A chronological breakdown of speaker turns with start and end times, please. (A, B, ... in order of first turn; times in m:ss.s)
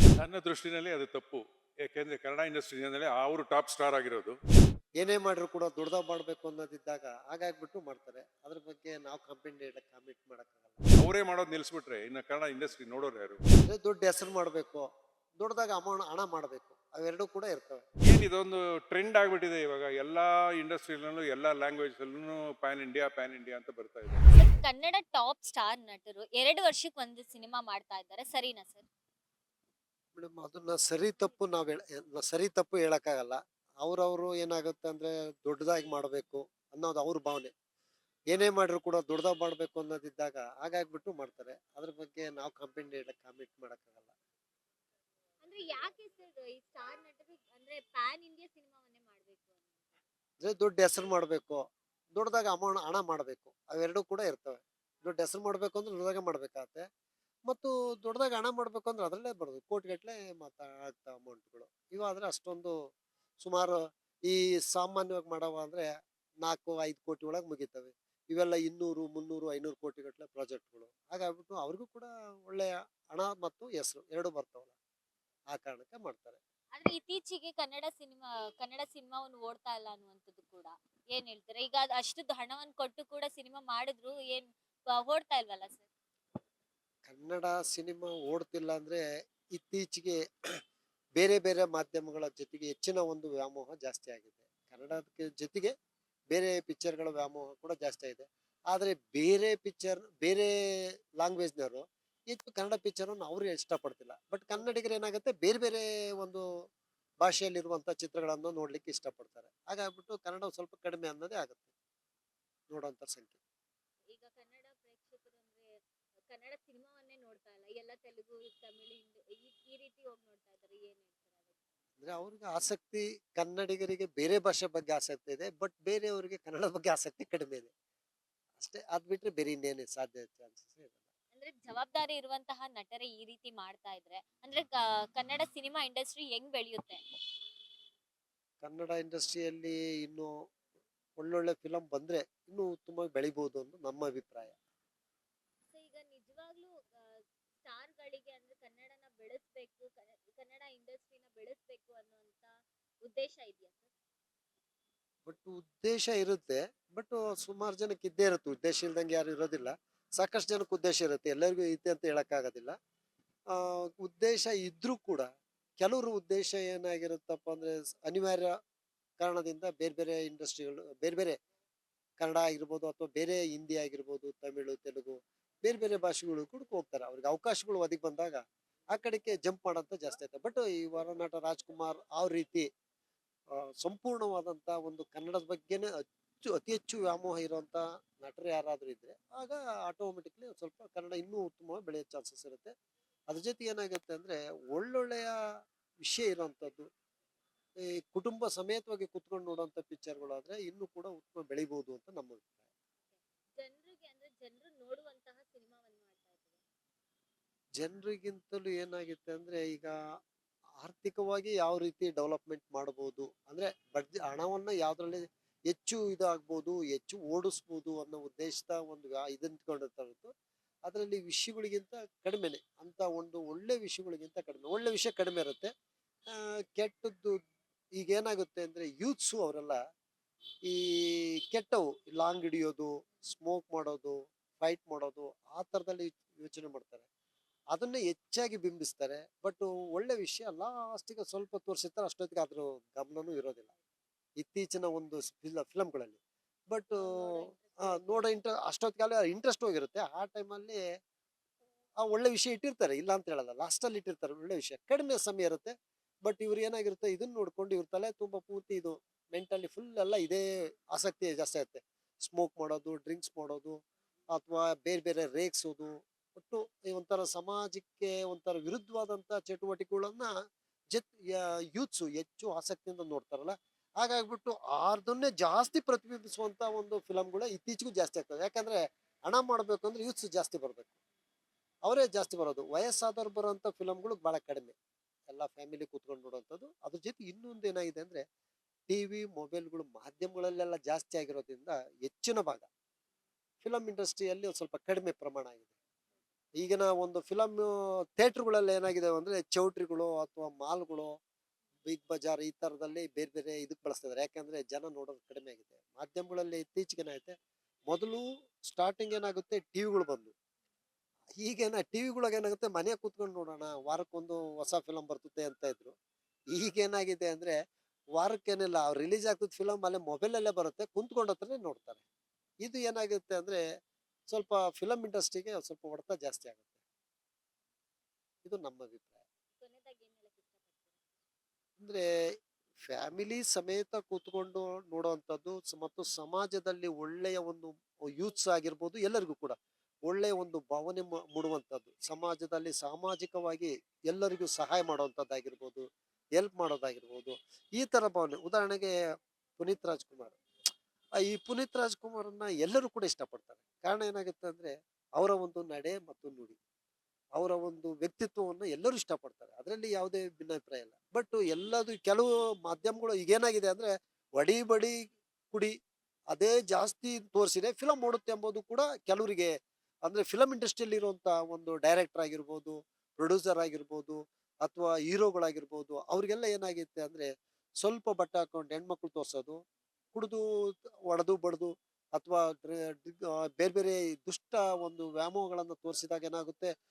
0:00.2-0:04.4 A
0:05.0-0:10.8 B
0:11.0-0:13.4 A
0:13.6-0:17.8 B
0:18.1-0:24.3 A
0:24.3-0:28.9 C
0:30.2-0:37.5 B
0:38.3-0:44.1 B
0:45.4-0:49.6 C
0:50.4-0:56.8 B
0:57.5-1:02.8 B
1:03.4-1:05.9 B
1:06.4-1:14.7 B
1:15.5-1:16.4 B
1:16.7-1:25.9 C
1:27.1-1:29.0 B
1:29.5-1:30.2 B
1:31.2-1:35.7 B
1:36.3-1:40.5 B
1:41.2-1:46.4 B
1:47.2-1:51.7 B
1:52.7-1:53.4 B
1:54.1-1:55.7 C
1:56.3-2:01.5 C
2:02.0-2:07.7 B
2:08.6-2:11.0 B
2:11.3-2:17.0 C
2:18.6-2:20.3 B
2:21.2-2:24.6 B
2:25.7-2:33.9 C
2:35.3-2:42.8 B
2:43.5-2:48.5 B
2:49.2-2:51.4 B
2:52.2-3:02.7 B
3:03.5-3:12.7 B
3:13.3-3:15.4 B
3:16.0-3:16.9 B
3:17.8-3:22.5 B
3:23.6-3:26.6 C
3:27.8-3:29.9 B
3:30.8-3:40.3 B
3:40.9-3:45.7 B
3:46.3-3:47.4 B
3:48.0-3:49.8 B
3:50.6-3:57.1 B
3:57.7-4:03.7 B
4:04.4-4:10.8 B
4:07.0-4:08.2 C
4:12.0-4:15.7 B
4:16.2-4:30.3 B
4:30.9-4:40.9 B
4:41.8-4:44.8 B
4:45.3-4:48.2 B
4:48.9-4:52.7 B
4:53.6-4:55.7 B
4:56.6-5:01.2 B
5:01.9-5:07.3 B
5:07.9-5:10.3 B
5:11.4-5:16.0 B
5:16.5-5:17.6 B
5:18.2-5:22.0 B
5:22.6-5:23.6 B
5:24.3-5:26.7 B
5:28.4-5:29.2 B
5:29.5-5:31.0 C
5:31.8-5:32.0 B
5:32.8-5:45.9 B
5:46.4-5:48.9 B
5:49.6-5:50.4 B
5:51.2-5:56.6 B
5:57.4-6:05.0 B
6:06.3-6:09.5 B
6:10.0-6:17.3 B
6:17.8-6:19.6 B
6:20.1-6:26.7 B